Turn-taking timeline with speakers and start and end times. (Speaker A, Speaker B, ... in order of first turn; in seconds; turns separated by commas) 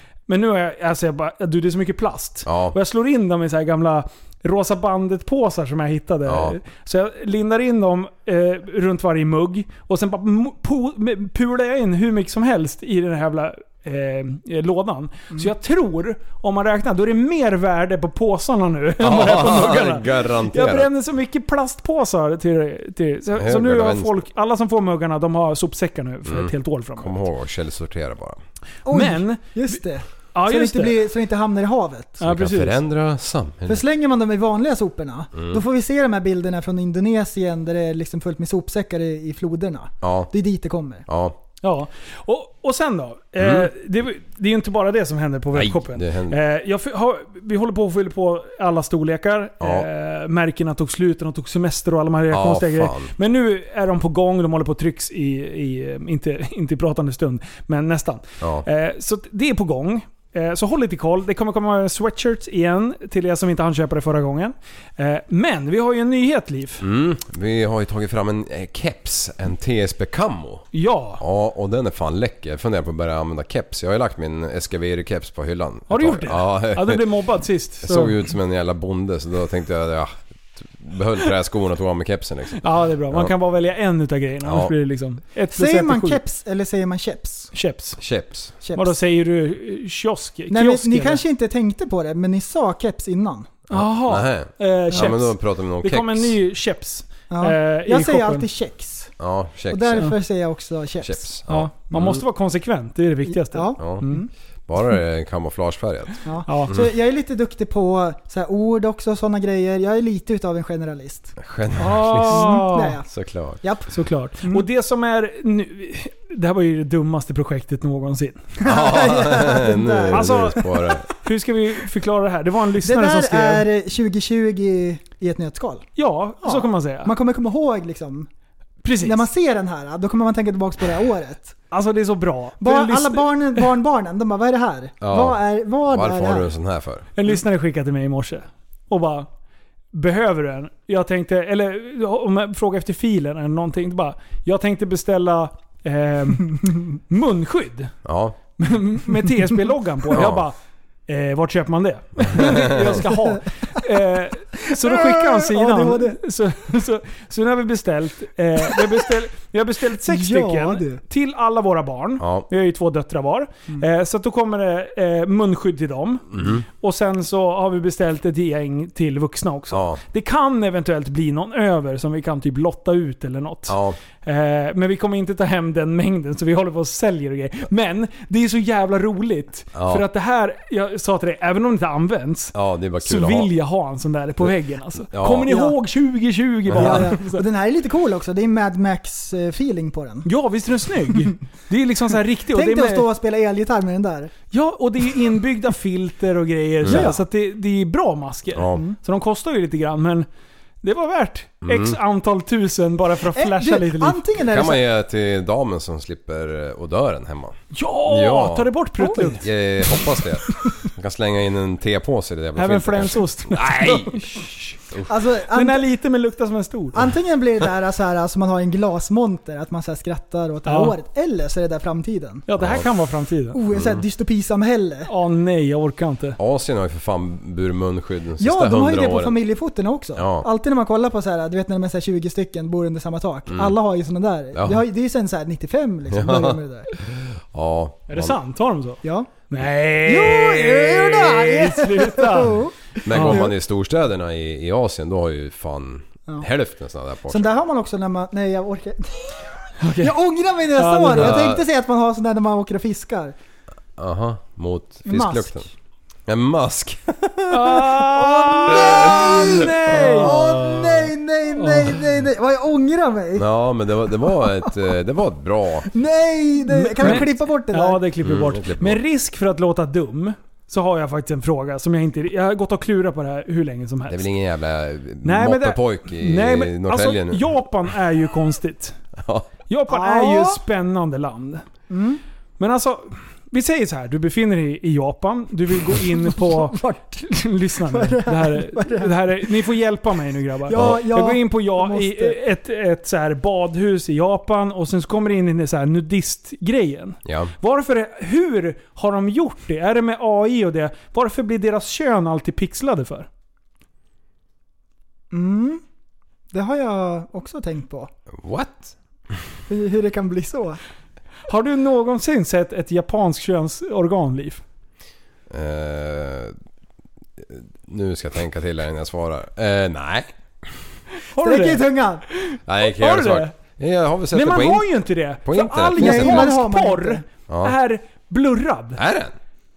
Speaker A: 0.3-27.2, Speaker B: 2.5-2.8, Speaker B: 6.3-6.6, Speaker B: 19.0-20.9, Speaker B: 23.4-24.2, Speaker B: 26.2-28.4, Speaker C: 28.9-32.2, Speaker A: 28.9-29.8, Speaker A: 30.3-31.0, Speaker A: 32.2-32.8, Speaker B: 32.2-33.8, Speaker C: 33.7-41.0, Speaker B: 40.0-40.3, Speaker B: 41.1-41.4, Speaker A: 41.6-66.8, Speaker B: 43.4-43.7, Speaker B: 45.5-46.4, Speaker B: 49.6-49.9, Speaker B: 52.3-53.1, Speaker B: 66.8-77.1, Speaker A: 70.7-71.2, Speaker A: 75.9-78.2, Speaker B: 77.8-83.3, Speaker A: 82.6-86.2, Speaker B: 84.4-84.7, Speaker C: 85.5-87.5, Speaker A: 87.5-88.0, Speaker B: 88.0-88.5, Speaker C: 88.6-88.9, Speaker A: 88.8-91.2, Speaker C: 90.5-93.5, Speaker B: 93.7-96.4, Speaker A: 93.7-98.5, Speaker C: 97.3-99.2, Speaker B: 99.2-100.1, Speaker C: 99.7-101.3, Speaker B: 101.0-102.2, Speaker A: 101.5-104.2, Speaker C: 103.3-104.3, Speaker B: 103.8-104.0, Speaker B: 104.7-106.9, Speaker C: 106.2-111.4, Speaker A: 106.5-106.7, Speaker B: 111.4-113.6, Speaker A: 111.8-113.0, Speaker C: 112.3-113.1, Speaker C: 113.6-114.7, Speaker A: 113.9-118.4, Speaker C: 118.6-120.7, Speaker B: 118.7-121.1, Speaker A: 120.1-120.6, Speaker A: 121.2-123.7, Speaker C: 122.8-125.9, Speaker A: 126.0-127.1, Speaker C: 126.4-128.3, Speaker A: 128.8-129.3, Speaker C: 129.0-131.6, Speaker A: 131.7-133.7, Speaker C: 132.6-136.5, Speaker B: 135.0-137.1, Speaker A: 137.2-139.3, Speaker A: 139.9-147.9, Speaker B: 148.0-148.4, Speaker A: 148.6-150.6, Speaker B: 150.1-150.4, Speaker A: 151.1-187.4, Speaker B: 152.3-153.0, Speaker C: 152.6-153.4, Speaker C: 154.7-156.2, Speaker C: 160.1-161.0, Speaker B: 162.2-162.5, Speaker B: 166.3-166.7, Speaker B: 169.7-170.0, Speaker B: 173.7-174.0, Speaker B: 179.7-180.1, Speaker B: 182.5-183.5, Speaker B: 185.1-185.6, Speaker C: 185.5-185.8, Speaker B: 186.7-187.1, Speaker C: 186.7-190.3, Speaker A: 190.2-193.1, Speaker C: 192.5-194.3, Speaker A: 194.5-200.3, Speaker B: 196.8-197.1, Speaker C: 196.9-197.2, Speaker B: 198.5-198.8, Speaker A: 200.8-204.2, Speaker B: 201.6-202.0, Speaker C: 203.3-204.8, Speaker B: 204.4-215.1, Speaker A: 207.7-209.4, Speaker C: 209.0-209.4, Speaker A: 212.6-214.7, Speaker C: 215.1-215.9, Speaker A: 215.5-217.0, Speaker C: 216.9-222.4, Speaker A: 220.7-220.9, Speaker A: 222.5-223.6, Speaker B: 222.6-222.8, Speaker C: 223.5-225.1, Speaker B: 223.7-224.0, Speaker A: 225.1-226.4, Speaker B: 226.4-229.4, Speaker C: 228.4-236.9, Speaker B: 230.2-230.5, Speaker B: 233.5-233.8, Speaker B: 234.5-234.8, Speaker B: 236.1-238.4, Speaker A: 238.1-242.6, Speaker C: 239.0-239.3, Speaker C: 240.1-243.5, Speaker B: 243.0-247.5, Speaker A: 243.1-243.5, Speaker C: 247.3-249.4, Speaker A: 249.8-250.2, Speaker C: 250.0-253.3, Speaker A: 250.8-251.4, Speaker B: 251.2-251.6, Speaker B: 254.0-255.7, Speaker C: 255.1-255.7, Speaker B: 256.3-257.0, Speaker A: 257.5-260.7, Speaker C: 257.5-263.4, Speaker B: 258.9-259.5, Speaker B: 260.1-261.0, Speaker A: 261.6-261.9, Speaker B: 263.4-265.9, Speaker C: 264.3-264.7, Speaker C: 265.9-268.0, Speaker A: 266.7-274.3, Speaker B: 267.0-267.3, Speaker B: 268.2-269.0, Speaker B: 274.1-277.5, Speaker A: 275.2-279.0, Speaker B: 279.2-279.5, Speaker A: 279.7-281.6, Speaker C: 279.9-280.6, Speaker C: 281.9-282.2, Speaker A: 282.6-303.3, Speaker C: 286.2-287.2, Speaker C: 287.8-289.5, Speaker C: 290.7-292.4, Speaker B: 290.7-291.0, Speaker B: 297.2-297.5, Speaker C: 305.3-305.8, Speaker C: 306.5-308.1, Speaker B: 308.3-308.9, Speaker C: 309.7-310.8, Speaker A: 311.5-314.6, Speaker B: 315.5-316.6, Speaker B: 317.4-320.3, Speaker A: 321.3-323.6, Speaker C: 321.4-322.2, Speaker B: 322.7-326.6, Speaker A: 324.3-329.0, Speaker C: 325.9-327.2, Speaker B: 327.5-327.8, Speaker B: 329.0-329.4